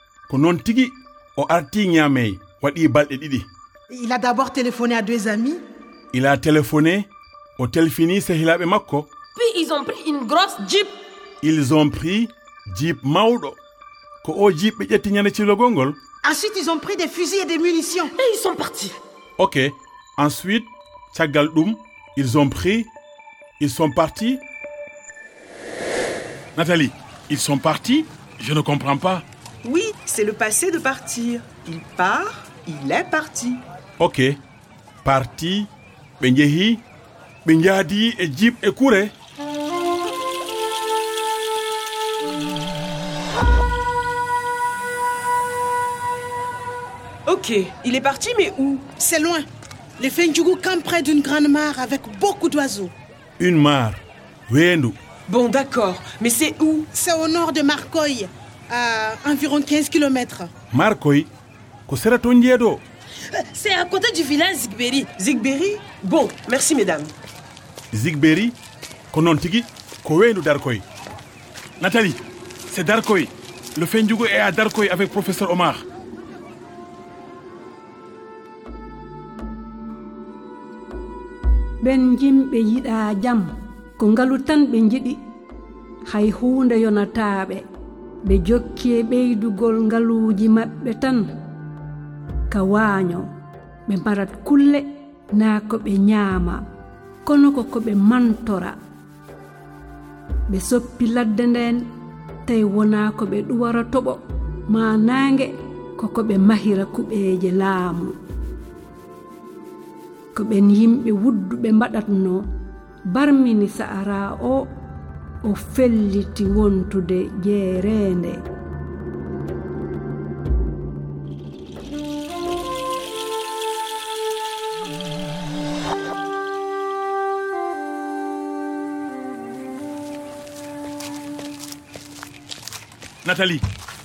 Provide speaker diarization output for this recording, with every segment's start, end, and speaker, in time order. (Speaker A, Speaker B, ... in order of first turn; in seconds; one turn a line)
Speaker A: 0.3-3.5
Speaker B: 3.9-5.6
Speaker A: 6.1-9.1
Speaker C: 9.3-10.9
Speaker A: 11.4-13.6
Speaker A: 14.2-16.0
Speaker B: 16.2-18.1
Speaker C: 18.2-18.9
Speaker A: 19.4-22.9
Speaker A: 23.6-24.4
Speaker A: 26.6-29.2
Speaker D: 29.6-33.6
Speaker A: 34.0-34.4
Speaker A: 35.0-36.8
Speaker A: 37.5-39.1
Speaker D: 47.3-48.9
Speaker B: 49.0-49.5
Speaker B: 50.0-52.9
Speaker A: 53.4-55.0
Speaker D: 55.3-56.9
Speaker B: 56.9-60.5
Speaker A: 60.7-61.3
Speaker A: 61.9-62.8
Speaker C: 63.3-65.1
Speaker D: 65.2-67.1
Speaker A: 67.9-68.6
Speaker A: 69.1-70.8
Speaker A: 71.8-75.8
Speaker E: 81.8-85.2
Speaker E: 86.0-87.7
Speaker E: 88.2-91.3
Speaker E: 92.5-93.3
Speaker E: 93.9-96.7
Speaker E: 97.2-98.8
Speaker E: 100.5-101.9
Speaker E: 102.4-108.2
Speaker E: 110.3-112.5
Speaker E: 113.1-114.7
Speaker E: 115.4-118.5
Speaker A: 133.2-133.6